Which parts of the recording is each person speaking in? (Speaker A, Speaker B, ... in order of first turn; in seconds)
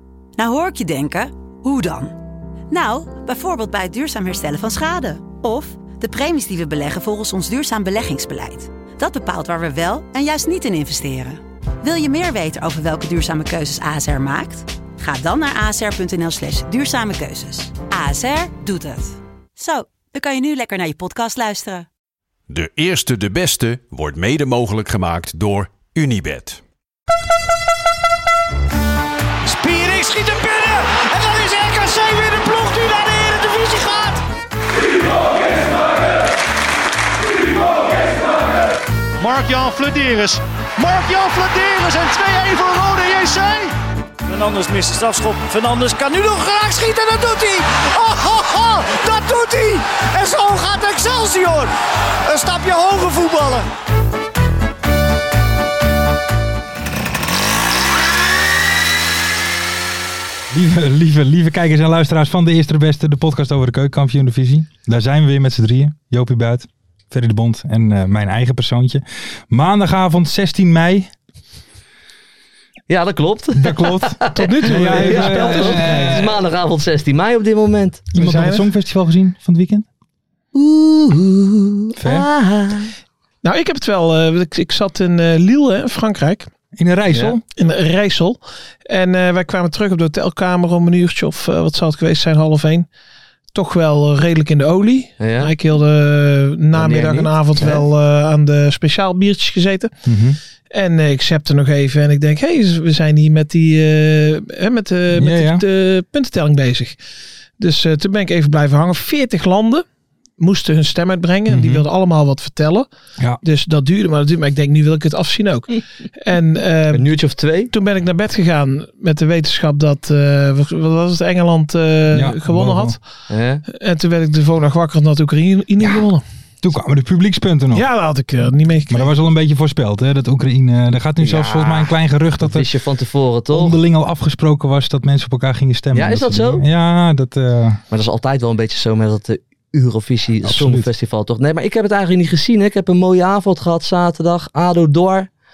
Speaker A: 0.4-2.2, 2.7-21.9
Speaker B: 22.5-26.6
Speaker C: 29.4-34.2, 39.2-43.7, 44.2-51.7, 52.2-53.7
Speaker D: 60.5-71.1, 73.5-76.4, 78.1-79.9, 82.0-82.3, 86.8-87.4, 100.1-100.4, 105.2-105.6, 111.5-111.9, 122.1-123.0, 126.6-127.9, 128.9-132.7, 133.5-137.8, 140.4-140.9
Speaker E: 72.9-78.0, 80.5-82.9, 87.1-87.4, 95.2-95.5, 96.7-97.8, 116.9-117.7, 123.3-123.6, 131.2-133.8, 135.9-136.6, 137.9-145.3
Speaker F: 74.3-76.2, 78.2-78.7, 83.4-86.5, 87.6-92.9, 93.5-99.9, 100.7-107.0, 107.6-109.8, 110.4-112.9, 113.4-117.1, 117.7-123.0, 123.7-126.2, 127.7-129.1